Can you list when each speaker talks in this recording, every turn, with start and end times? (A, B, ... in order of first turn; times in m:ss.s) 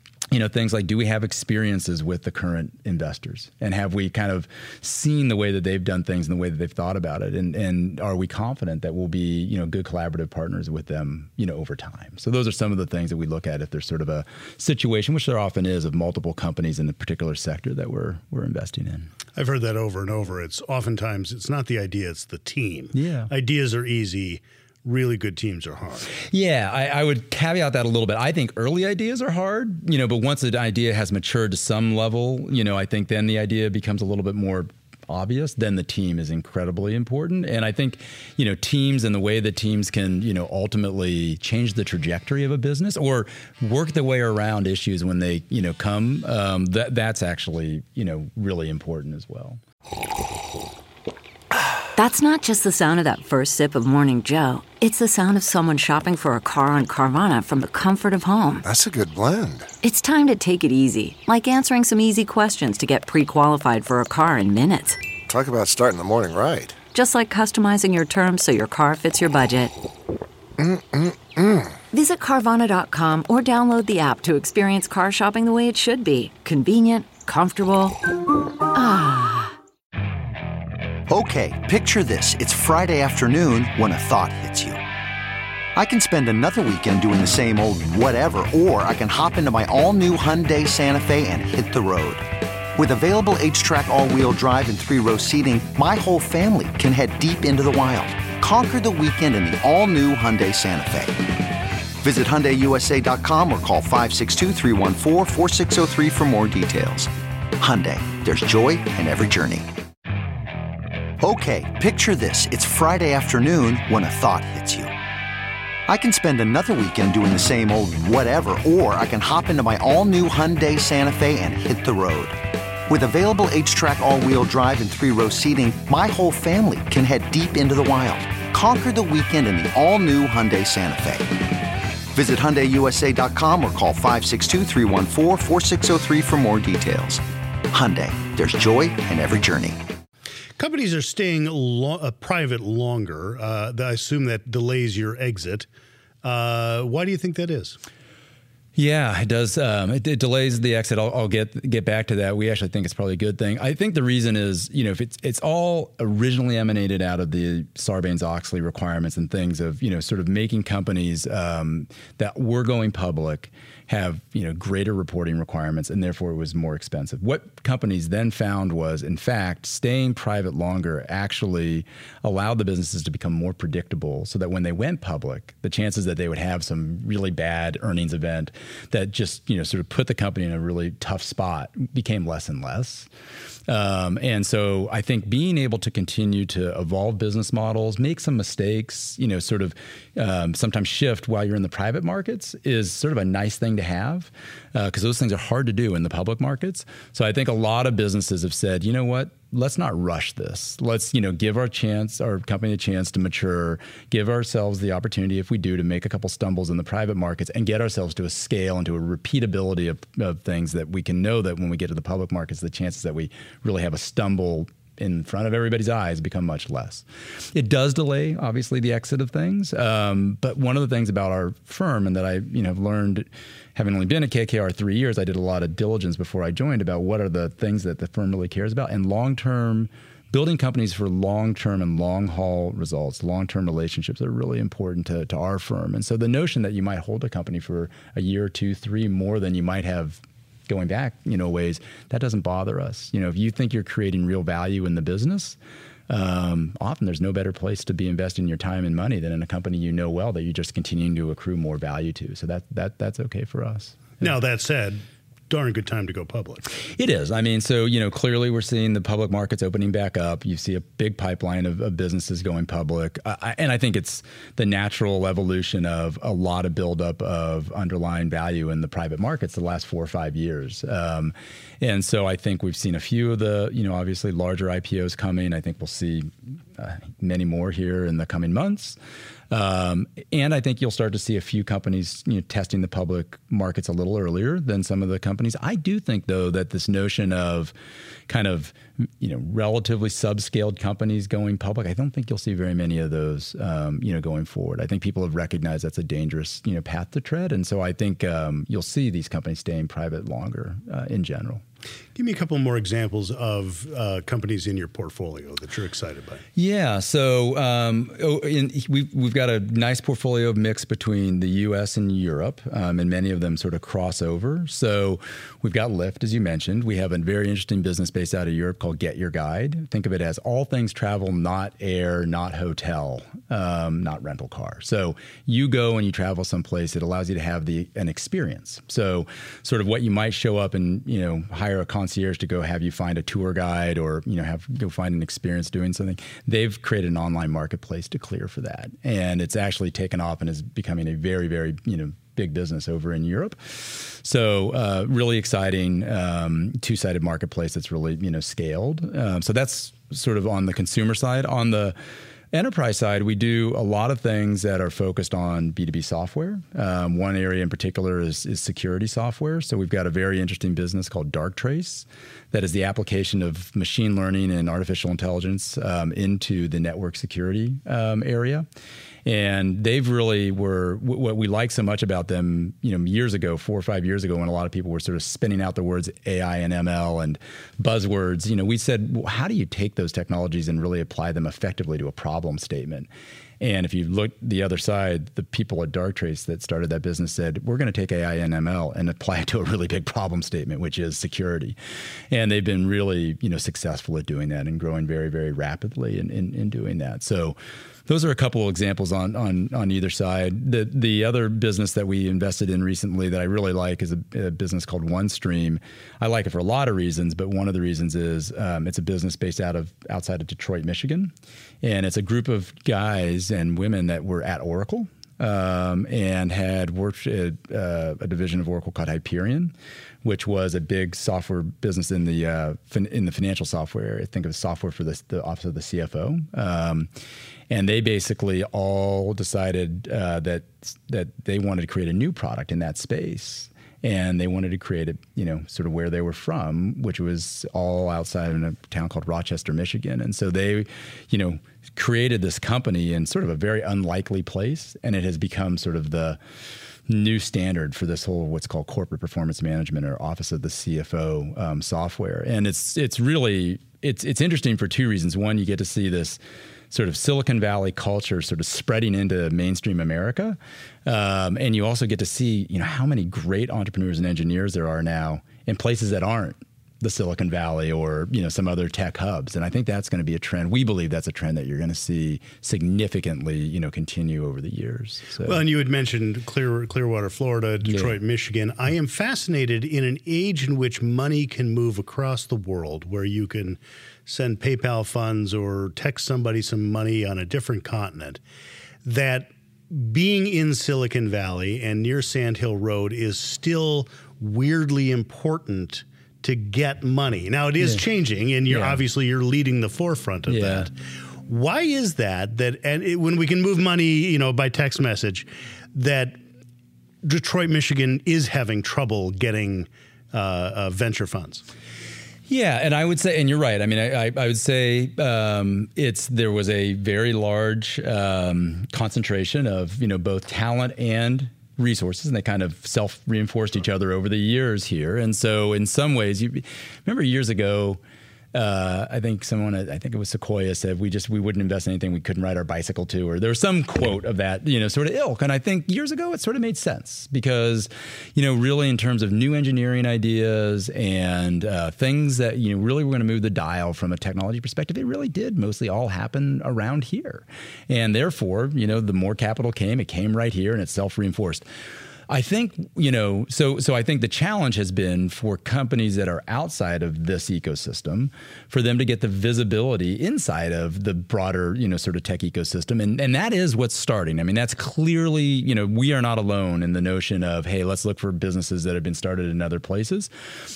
0:00.3-0:19.1 A
0:19.4-0:26.1 B
0:22.9-0:23.3 A
0:26.1-0:49.6 A
0:52.0-0:58.6 C
0:58.6-0:59.7 D
0:59.8-1:05.0 C
1:05.3-1:06.8 D
1:06.9-1:09.7 C
1:10.6-1:11.8 D
1:11.9-1:18.0 C
1:18.7-1:19.6 C
1:21.1-1:24.8 E
1:25.8-1:32.2 E
1:32.8-1:41.2 E
1:42.0-1:49.7 E
1:51.2-1:54.9 E
1:55.9-2:02.4 E
2:02.9-2:11.3 E
2:12.1-2:19.8 E
2:20.6-2:25.7 B
2:26.2-2:27.8 B
2:28.8-3:03.1 A
3:03.7-4:05.6 A
4:06.1-4:14.2 A
4:14.2-4:16.6 B
4:17.0-4:39.0 A
4:39.5-4:47.7 A
4:48.3-5:01.6 A
5:02.2-5:06.4 B
5:06.6-5:52.0 A
5:52.5-6:08.7 A
6:09.2-6:23.1 A
6:23.6-6:31.8 A
6:32.3-7:07.1 A
7:07.7-7:26.4 A
7:27.1-7:36.4 A
7:36.9-7:55.6 A
7:55.4-8:08.4 B
8:09.0-8:20.9 B
8:18.7-8:19.0 A
8:20.5-8:20.9 A
8:21.4-8:26.4 B
8:27.2-8:31.6 B
8:32.5-8:48.0 A
8:48.5-9:11.6 A
9:12.3-9:30.3 A